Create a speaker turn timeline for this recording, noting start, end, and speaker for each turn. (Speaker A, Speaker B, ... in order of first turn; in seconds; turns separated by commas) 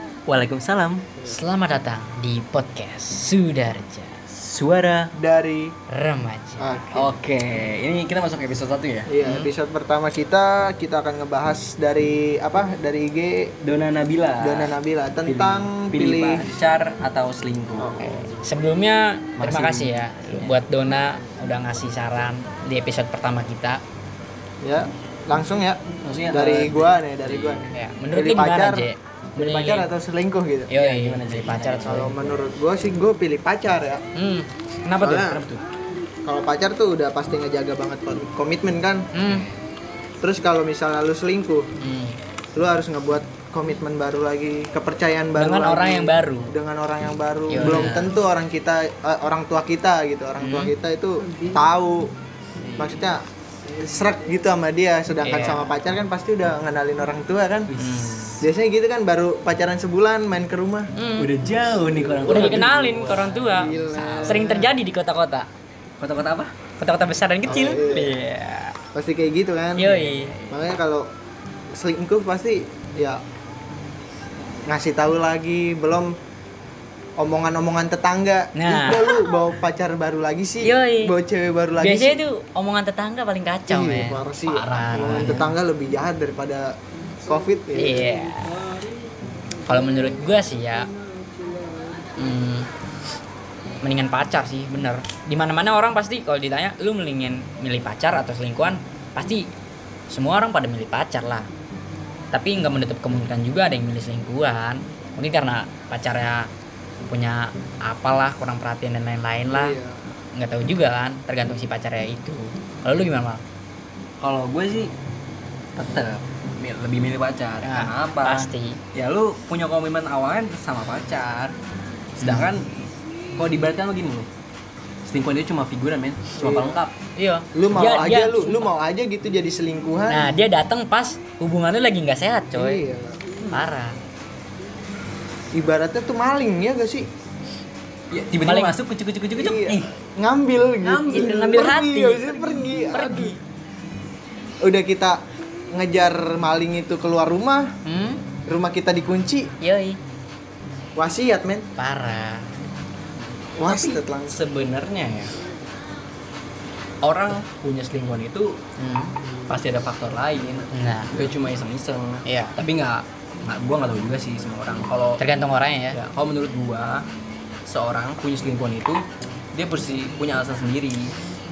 Speaker A: 0.3-1.1, Speaker B: 1.2-4.3, Speaker A: 4.3-5.1, Speaker C: 5.2-5.7, Speaker B: 5.9-6.8, Speaker C: 6.6-7.1, Speaker A: 6.9-9.1, Speaker C: 9.1-13.5, Speaker B: 9.2-9.5, Speaker A: 13.6-18.1, Speaker C: 14.4-16.5, Speaker C: 17.8-18.1, Speaker B: 18.0-23.8, Speaker A: 19.4-20.6, Speaker C: 24.6-30.7, Speaker A: 26.0-27.7, Speaker B: 27.7-29.9, Speaker B: 30.7-32.1, Speaker A: 30.7-32.1, Speaker C: 31.8-34.0, Speaker B: 34.1-35.3, Speaker C: 35.0-35.4, Speaker A: 35.1-35.6, Speaker C: 36.2-39.1, Speaker B: 39.1-39.5, Speaker C: 40.2-41.7, Speaker B: 41.8-42.2, Speaker C: 42.5-52.1, Speaker B: 45.4-46.5, Speaker B: 47.5-48.2, Speaker A: 47.6-48.0, Speaker B: 50.4-50.7, Speaker A: 52.6-53.1, Speaker C: 52.8-53.2, Speaker C: 53.8-57.7, Speaker B: 55.2-55.8, Speaker A: 57.7-58.4, Speaker B: 57.8-58.4, Speaker C: 58.4-60.9, Speaker B: 61.0-61.3, Speaker A: 61.2-64.5, Speaker C: 62.0-64.7, Speaker B: 62.2-65.5, Speaker A: 66.0-66.5, Speaker B: 66.8-68.8, Speaker C: 67.5-68.1, Speaker C: 68.9-71.1, Speaker B: 69.8-70.3, Speaker A: 69.9-70.7, Speaker C: 71.7-73.2, Speaker C: 74.7-76.1, Speaker C: 77.2-82.2, Speaker B: 78.5-79.1, Speaker B: 80.6-81.1, Speaker B: 81.8-85.5, Speaker C: 83.7-88.2, Speaker A: 84.7-85.5, Speaker B: 87.8-88.6, Speaker B: 89.7-90.9, Speaker B: 92.2-92.7, Speaker B: 93.8-99.5, Speaker B: 100.1-101.5, Speaker B: 102.3-106.5, Speaker B: 107.1-109.8, Speaker C: 109.5-110.0, Speaker B: 110.3-113.4, Speaker A: 114.2-114.9, Speaker A: 115.8-121.5, Speaker B: 117.6-118.8, Speaker A: 122.2-122.7, Speaker A: 123.3-124.3, Speaker A: 125.1-126.9, Speaker C: 126.4-126.8, Speaker B: 127.2-128.7, Speaker C: 127.5-130.3, Speaker B: 130.1-132.8, Speaker C: 132.5-133.2, Speaker B: 133.5-133.9, Speaker C: 135.5-137.1, Speaker A: 138.1-139.9, Speaker B: 138.4-138.8, Speaker C: 139.3-143.4, Speaker A: 140.8-141.5, Speaker B: 141.1-143.4, Speaker C: 144.6-145.2, Speaker C: 145.7-147.7, Speaker B: 147.8-148.2, Speaker C: 148.5-149.5, Speaker B: 149.6-150.0, Speaker C: 151.0-151.7, Speaker B: 151.8-152.6, Speaker C: 153.6-154.4, Speaker A: 153.6-155.3, Speaker A: 157.0-158.6, Speaker B: 158.8-159.2, Speaker A: 159.5-165.2, Speaker B: 160.7-161.2, Speaker B: 162.2-162.6, Speaker B: 165.2-166.0, Speaker A: 165.9-167.1, Speaker A: 167.7-169.0, Speaker A: 169.5-171.1